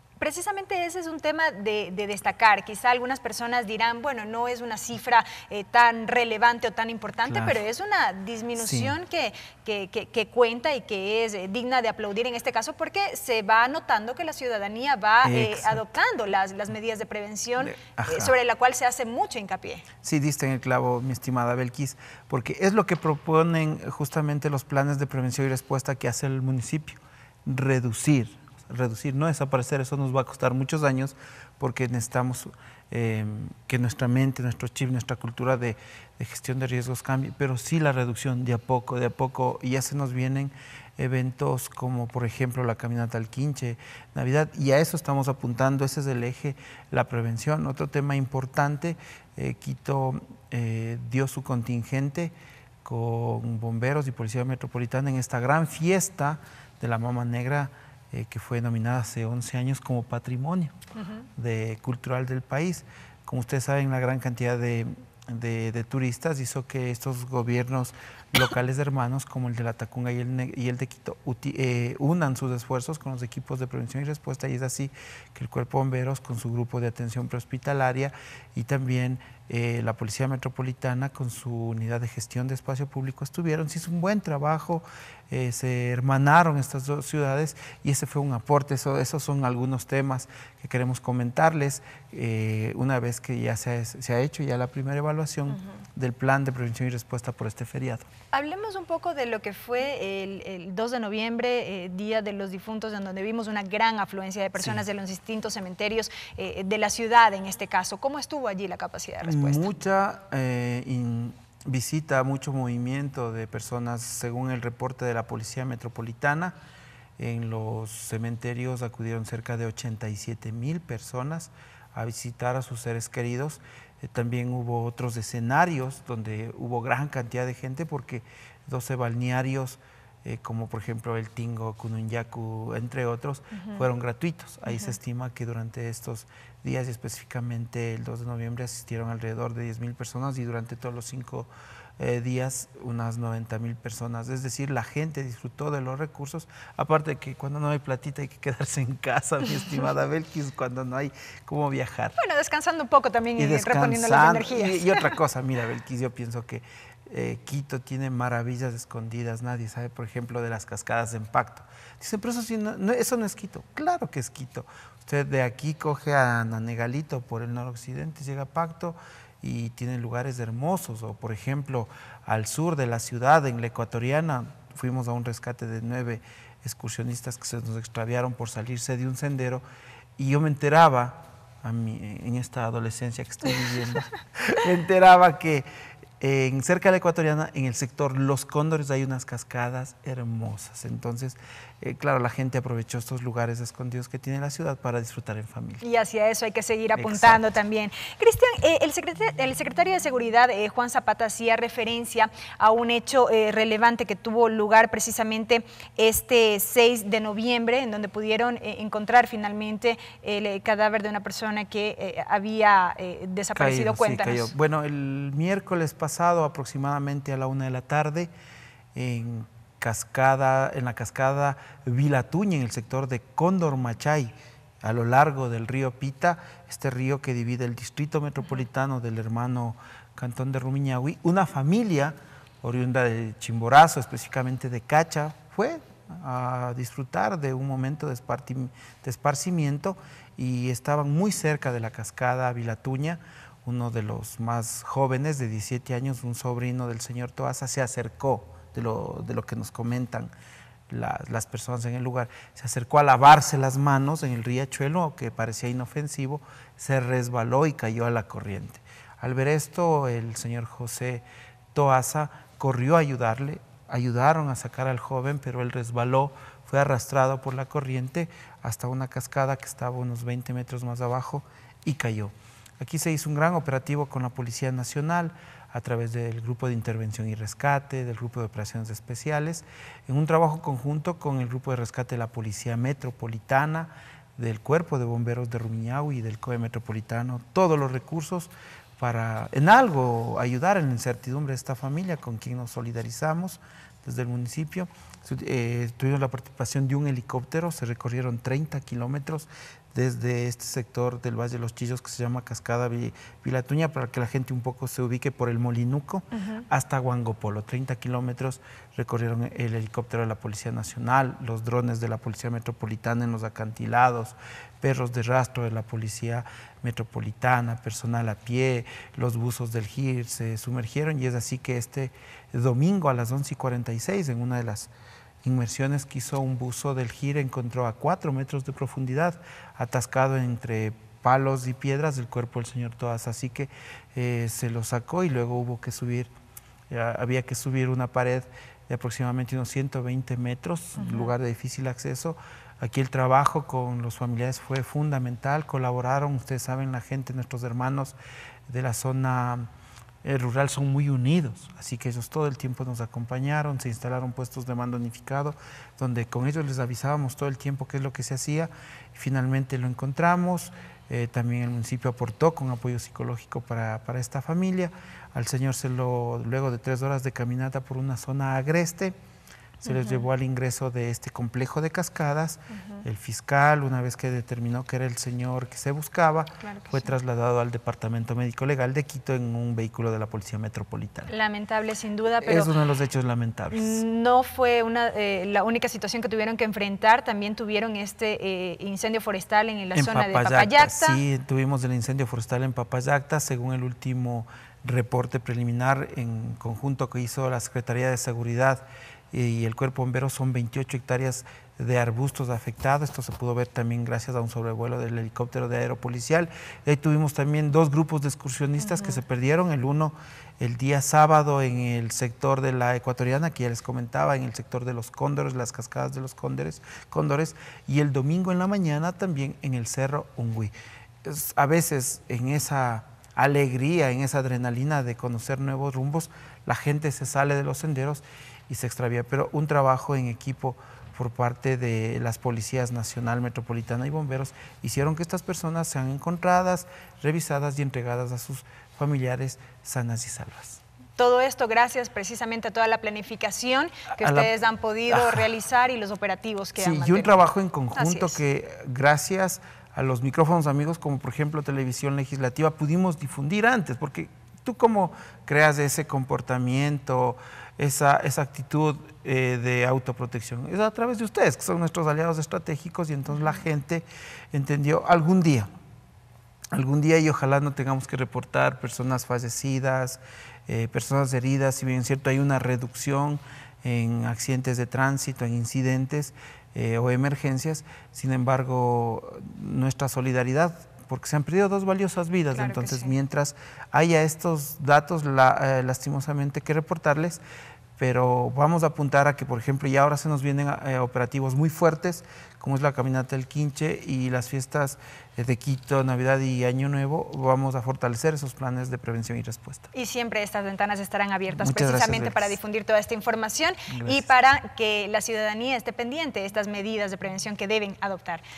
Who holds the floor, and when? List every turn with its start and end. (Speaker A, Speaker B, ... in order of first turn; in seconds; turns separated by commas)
Speaker A: 0.2-19.9, Speaker B: 7.2-7.6, Speaker B: 8.6-8.9, Speaker B: 15.2-15.8, Speaker B: 17.6-18.3, Speaker B: 20.0-60.7, Speaker A: 61.0-61.2, Speaker B: 61.4-98.1, Speaker A: 98.3-109.7, Speaker B: 109.2-116.5, Speaker B: 117.2-152.2, Speaker A: 152.2-155.1, Speaker B: 153.4-179.6, Speaker B: 180.2-185.7, Speaker B: 186.2-195.8, Speaker A: 195.8-214.5, Speaker B: 196.9-197.5, Speaker B: 213.6-218.3, Speaker B: 218.9-250.3, Speaker B: 250.9-324.9, Speaker B: 325.4-336.3, Speaker B: 336.9-348.2, Speaker A: 341.0-341.3, Speaker B: 348.7-349.7, Speaker B: 350.2-369.1, Speaker B: 369.8-381.3, Speaker A: 369.9-370.2, Speaker A: 376.6-377.0, Speaker A: 381.3-382.7, Speaker B: 382.4-384.0, Speaker A: 383.7-391.2, Speaker B: 389.9-420.7, Speaker B: 421.2-440.8, Speaker A: 441.2-448.4, Speaker B: 444.2-444.5, Speaker B: 445.1-445.5, Speaker B: 446.8-465.7, Speaker B: 466.7-487.4, Speaker A: 482.5-483.1, Speaker B: 488.0-499.9, Speaker A: 499.9-508.4, Speaker B: 501.5-502.6, Speaker B: 503.9-504.3